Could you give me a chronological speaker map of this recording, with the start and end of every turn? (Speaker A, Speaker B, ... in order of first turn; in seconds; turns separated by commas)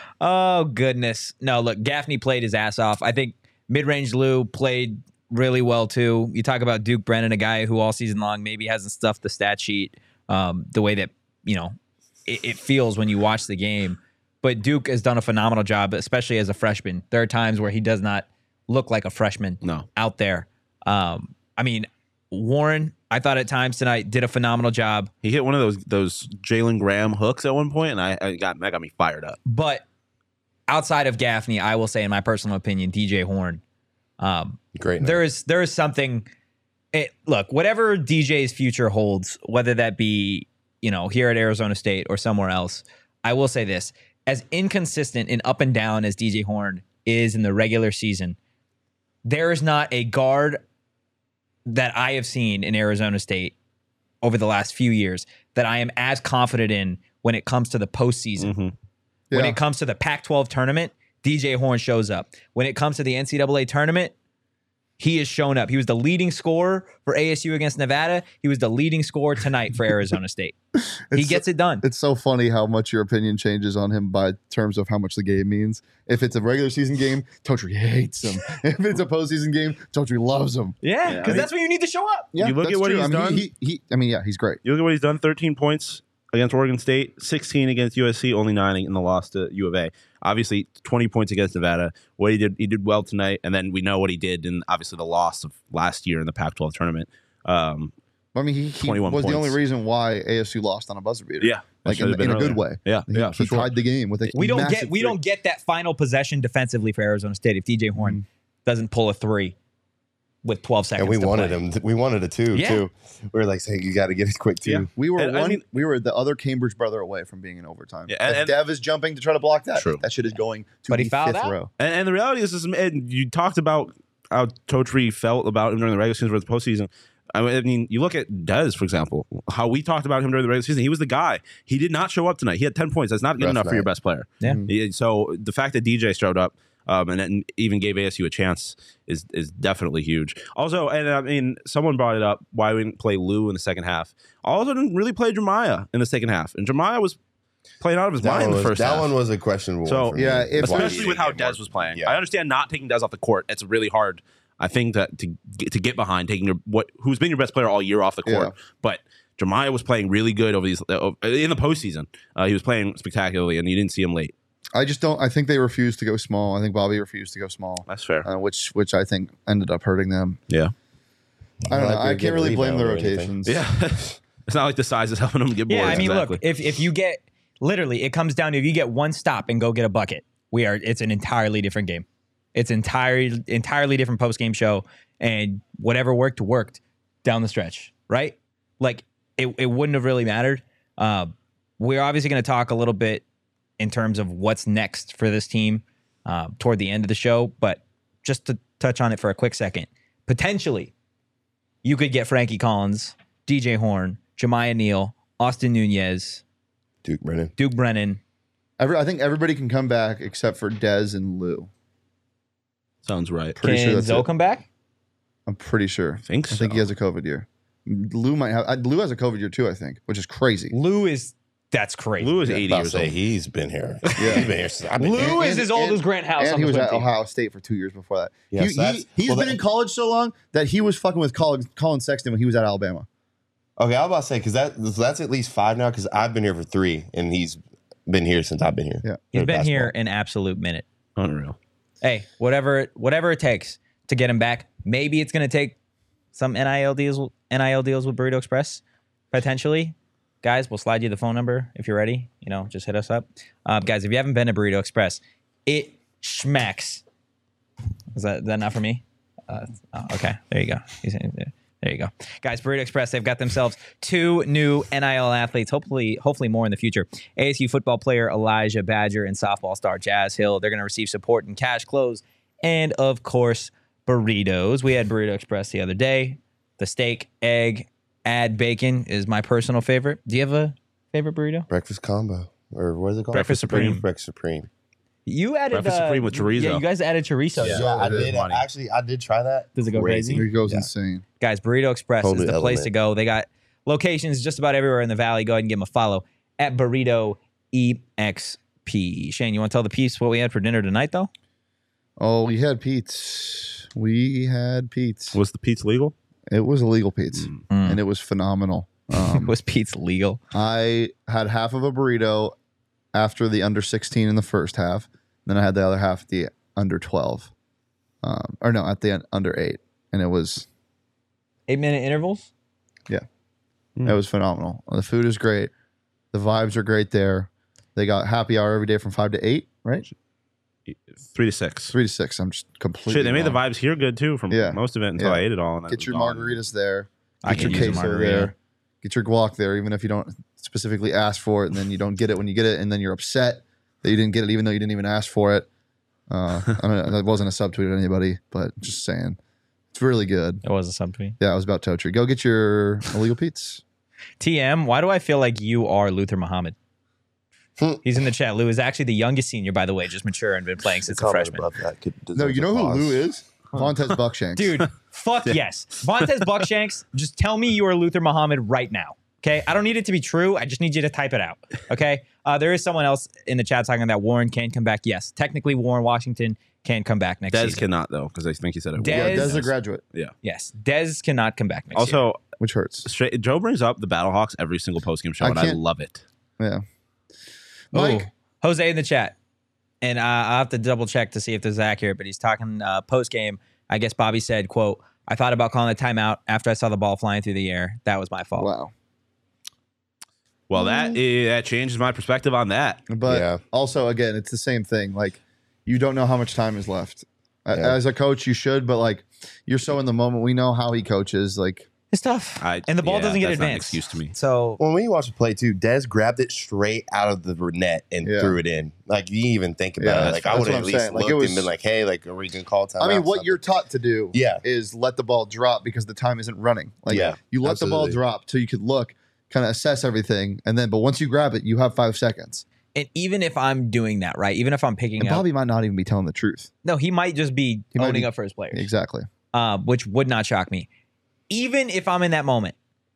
Speaker A: 0.2-25.1, Speaker B: 25.2-29.4, Speaker A: 29.4-29.8, Speaker A: 30.7-33.6, Speaker A: 34.2-36.3, Speaker C: 34.7-35.2, Speaker A: 36.9-48.4, Speaker A: 49.2-50.6, Speaker A: 51.6-53.5, Speaker A: 54.2-58.5, Speaker B: 58.4-58.7, Speaker D: 59.3-59.6, Speaker A: 59.3-64.1, Speaker A: 65.0-70.5, Speaker D: 71.1-81.5, Speaker A: 71.1-71.8, Speaker A: 80.8-82.3, Speaker B: 81.1-81.5, Speaker D: 82.3-84.6, Speaker B: 82.4-83.4, Speaker B: 84.6-97.9, Speaker D: 98.3-105.1, Speaker B: 98.8-99.6, Speaker B: 101.4-103.7, Speaker A: 104.3-109.5, Speaker D: 108.0-108.2, Speaker A: 110.4-111.6, Speaker C: 111.0-114.9, Speaker A: 112.5-112.9, Speaker B: 114.7-115.6, Speaker D: 114.9-121.7, Speaker B: 118.1-118.5, Speaker B: 119.8-120.0, Speaker A: 120.9-121.5, Speaker B: 121.8-147.2, Speaker C: 133.4-133.9, Speaker D: 134.4-134.7, Speaker B: 147.8-149.1, Speaker C: 148.2-152.2, Speaker B: 149.8-164.3, Speaker D: 150.1-151.2, Speaker D: 158.2-158.5, Speaker D: 164.7-170.4, Speaker B: 167.9-168.3, Speaker C: 171.7-173.3, Speaker D: 171.7-173.6, Speaker B: 173.4-176.4, Speaker A: 175.7-193.2, Speaker A: 193.8-200.9, Speaker A: 201.8-206.4, Speaker C: 207.0-207.5, Speaker A: 207.6-208.2, Speaker D: 208.8-211.7, Speaker B: 213.0-213.6, Speaker D: 213.6-214.3, Speaker A: 213.6-214.7, Speaker D: 215.5-220.7, Speaker B: 216.3-216.8, Speaker A: 220.7-222.4, Speaker B: 222.2-223.2, Speaker C: 222.6-225.3, Speaker D: 224.2-224.5, Speaker A: 225.0-227.1, Speaker D: 225.1-233.1, Speaker C: 228.5-229.6, Speaker C: 233.8-239.9, Speaker A: 239.3-240.8, Speaker B: 241.2-241.6, Speaker A: 242.0-245.8, Speaker A: 246.3-257.0, Speaker A: 258.1-281.7, Speaker C: 281.7-284.7, Speaker B: 283.3-284.0, Speaker A: 283.3-284.0, Speaker A: 285.2-288.0, Speaker B: 285.7-286.8, Speaker B: 287.6-288.6, Speaker C: 287.6-290.9, Speaker D: 288.0-288.3, Speaker A: 289.8-290.4, Speaker D: 290.3-291.2, Speaker A: 291.4-301.3, Speaker C: 292.2-292.9, Speaker D: 302.2-305.4, Speaker B: 305.3-306.1, Speaker D: 306.5-309.5, Speaker A: 307.7-308.0, Speaker A: 309.1-310.4, Speaker D: 310.5-312.5, Speaker D: 313.1-317.5, Speaker D: 318.2-320.6, Speaker A: 321.7-322.5, Speaker D: 324.0-325.7, Speaker D: 326.3-330.1, Speaker B: 330.9-331.9, Speaker D: 331.9-333.6, Speaker B: 333.1-336.6, Speaker D: 334.5-345.7, Speaker A: 337.4-338.5, Speaker B: 337.5-338.0, Speaker D: 346.3-349.4, Speaker D: 349.9-350.6, Speaker A: 350.6-351.4, Speaker D: 351.4-353.8, Speaker A: 354.4-356.7, Speaker A: 358.0-361.7, Speaker C: 361.0-363.2, Speaker D: 362.3-364.8, Speaker A: 364.6-377.8, Speaker B: 377.5-380.3, Speaker A: 379.0-379.6, Speaker D: 379.1-380.0, Speaker A: 380.4-382.2, Speaker B: 381.9-382.4, Speaker D: 382.6-383.1, Speaker B: 383.0-386.2, Speaker D: 385.4-385.8, Speaker D: 386.6-386.8, Speaker D: 387.9-388.3, Speaker A: 387.9-389.3, Speaker A: 390.0-398.7, Speaker D: 398.6-398.9, Speaker B: 400.7-403.1, Speaker D: 403.1-411.9, Speaker C: 403.2-403.6, Speaker A: 412.1-414.8, Speaker B: 412.6-414.3, Speaker C: 414.8-423.6, Speaker D: 418.2-418.6, Speaker D: 420.0-421.7, Speaker B: 420.2-420.9, Speaker D: 423.0-432.6, Speaker C: 424.3-424.6, Speaker C: 427.1-428.2, Speaker A: 432.9-435.4, Speaker D: 435.2-436.7, Speaker A: 436.8-438.9, Speaker D: 437.9-439.3, Speaker A: 439.5-440.9, Speaker A: 441.5-442.7